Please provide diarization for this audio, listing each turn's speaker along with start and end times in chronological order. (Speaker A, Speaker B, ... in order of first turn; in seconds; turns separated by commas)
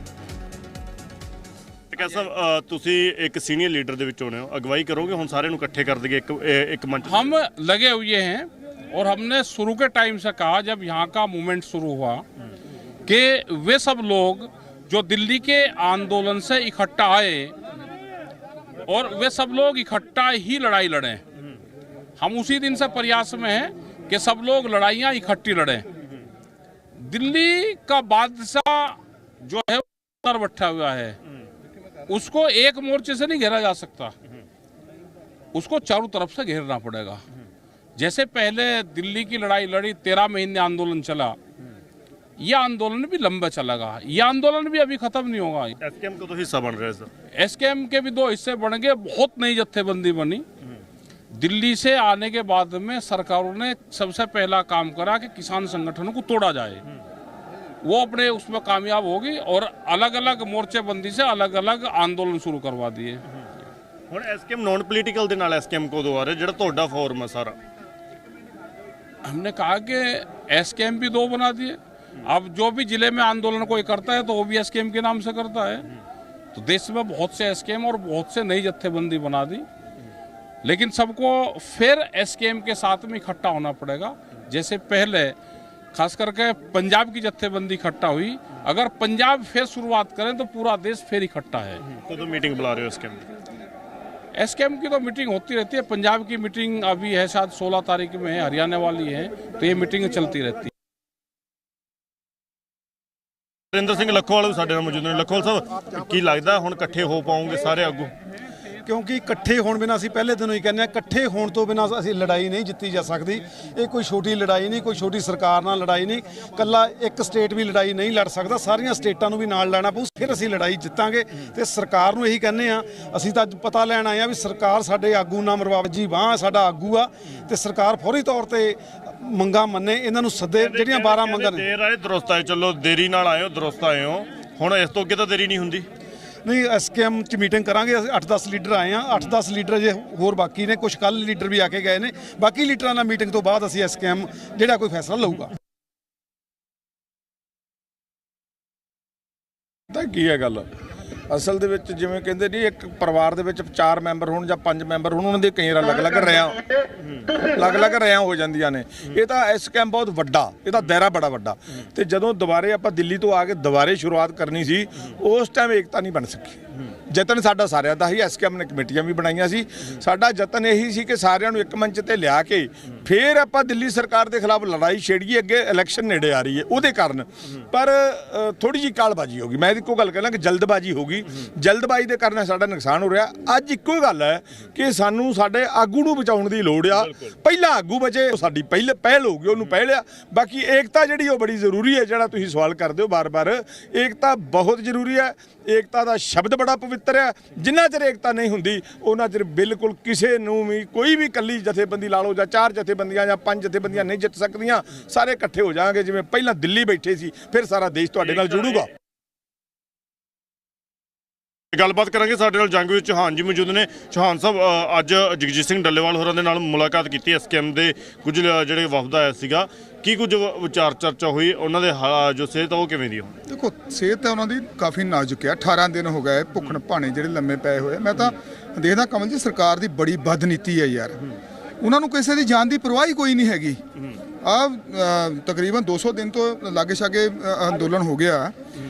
Speaker A: 1.9-7.3, Speaker B: 7.1-12.2, Speaker B: 13.0-17.5, Speaker B: 18.9-21.2, Speaker B: 22.2-25.8, Speaker B: 27.0-31.2, Speaker B: 32.1-34.1, Speaker B: 35.5-37.2, Speaker B: 38.0-41.4, Speaker B: 42.4-45.8, Speaker A: 45.8-47.1, Speaker B: 47.3-50.4, Speaker B: 51.3-56.8, Speaker B: 57.8-63.2, Speaker A: 64.1-67.6, Speaker B: 69.2-75.9, Speaker B: 76.5-79.7, Speaker B: 80.6-85.3, Speaker B: 85.9-91.8, Speaker A: 91.9-93.2, Speaker B: 94.3-100.7, Speaker A: 103.7-108.1, Speaker C: 108.8-131.6, Speaker A: 130.6-135.8, Speaker C: 136.4-145.5, Speaker D: 149.9-150.7, Speaker D: 151.3-156.6, Speaker D: 157.5-166.6, Speaker D: 167.1-208.9, Speaker A: 208.2-208.8, Speaker A: 211.7-223.3, Speaker E: 223.5-231.2, Speaker E: 231.8-233.8, Speaker E: 234.4-238.5